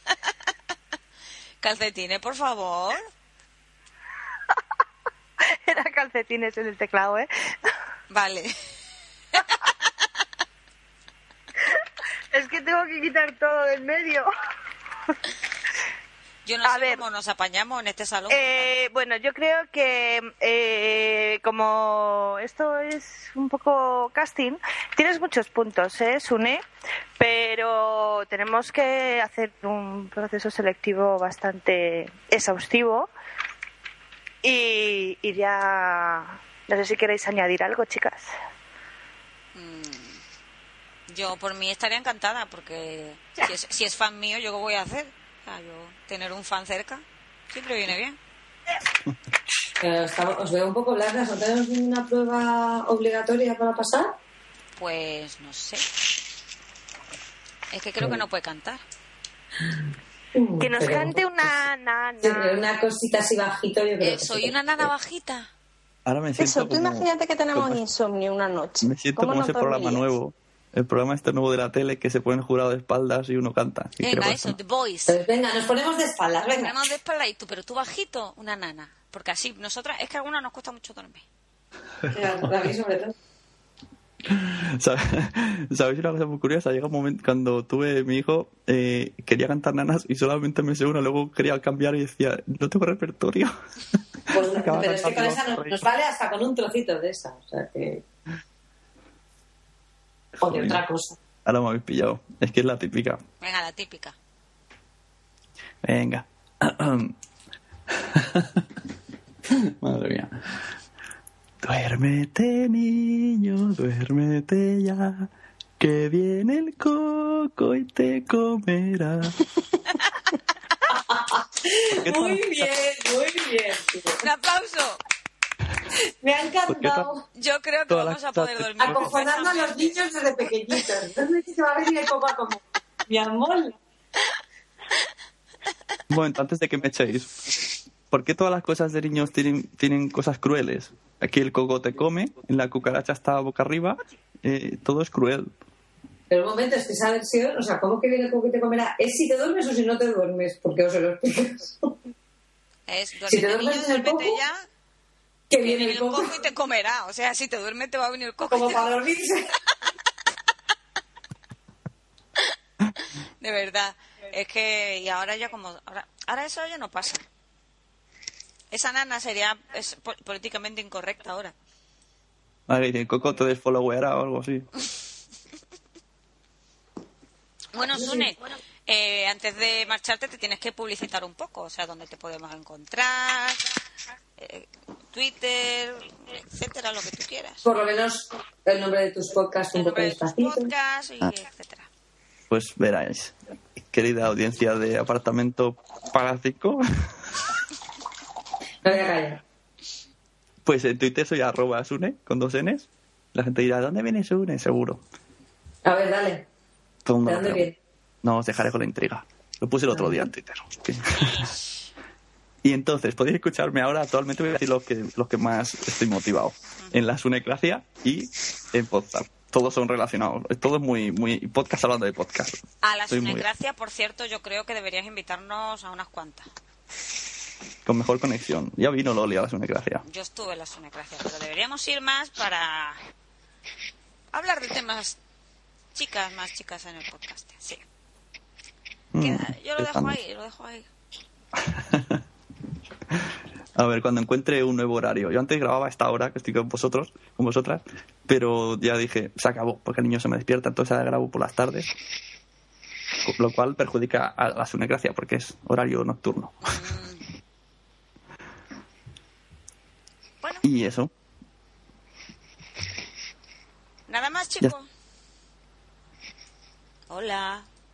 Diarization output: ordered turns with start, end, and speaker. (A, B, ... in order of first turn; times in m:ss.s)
0:01.6-0:03.1 A
0:05.4-0:07.7 B
0:08.1-0:08.5 A
0:12.3-0:14.3 B
0:16.4-0:18.7 A
0:16.6-0:17.0 B
0:18.3-0:26.6 B
0:27.2-0:33.1 B
0:34.4-0:38.3 B
0:39.5-0:40.2 A
0:41.1-0:48.2 A
0:49.8-0:54.2 C
0:54.8-0:55.8 A
0:57.7-0:58.8 A
0:59.6-1:01.2 C
1:00.6-1:02.6 B
1:02.2-1:04.9 C
1:04.0-1:05.5 A
1:06.0-1:07.8 D
1:06.4-1:10.1 E
1:08.8-1:14.6 D
1:14.0-1:15.2 A
1:15.1-1:16.7 C
1:16.5-1:21.2 A
1:22.1-1:23.1 C
1:24.3-1:33.5 D
1:34.3-1:35.8 D
1:34.3-1:38.0 C
1:40.4-1:41.2 C
1:40.4-1:40.8 D
1:41.4-1:43.2 D
1:43.4-1:44.1 A
1:45.8-1:47.1 D
1:47.9-1:48.6 D
1:49.5-1:50.3 D
1:51.6-1:59.4 D
2:00.9-2:04.2 C
2:02.0-2:02.7 D
2:04.2-2:05.0 A
2:06.2-2:07.2 C
2:06.7-2:07.1 D
2:07.3-2:10.7 A
2:07.9-2:09.1 D
2:08.8-2:13.8 C
2:16.1-2:17.3 D
2:18.1-2:25.5 D
2:26.3-2:31.9 C
2:32.9-2:34.6 A
2:33.3-2:34.4 C
2:35.5-2:36.4 C
2:35.6-2:38.9 A
2:38.5-2:39.5 C
2:43.4-2:47.2 A
2:48.7-2:51.5 A
2:52.7-2:54.7 D
2:57.7-3:03.6 A
2:58.0-2:58.2 C
3:04.4-3:07.6 A
3:07.6-3:10.7 C
3:09.7-3:11.9 A
3:12.5-3:13.3 D
3:13.9-3:16.8 D
3:18.8-3:19.4 C
3:20.6-3:25.0 D
3:25.8-3:26.4 C
3:27.0-3:27.7 D
3:27.2-3:27.7 C
3:28.2-3:31.5 D
3:29.9-3:30.2 C
3:32.6-3:43.5 D
3:42.8-3:46.5 A
3:47.8-3:50.0 D
3:50.0-3:53.0 A
3:54.3-3:55.2 A
3:55.9-3:57.8 A
3:59.1-4:00.2 D
3:59.2-4:00.9 A
4:01.6-4:02.2 D
4:03.1-4:11.9 D
4:13.2-4:16.7 D
4:16.6-4:17.2 A
4:20.6-4:21.1 D
4:24.1-4:24.9 A
4:27.1-4:27.6 A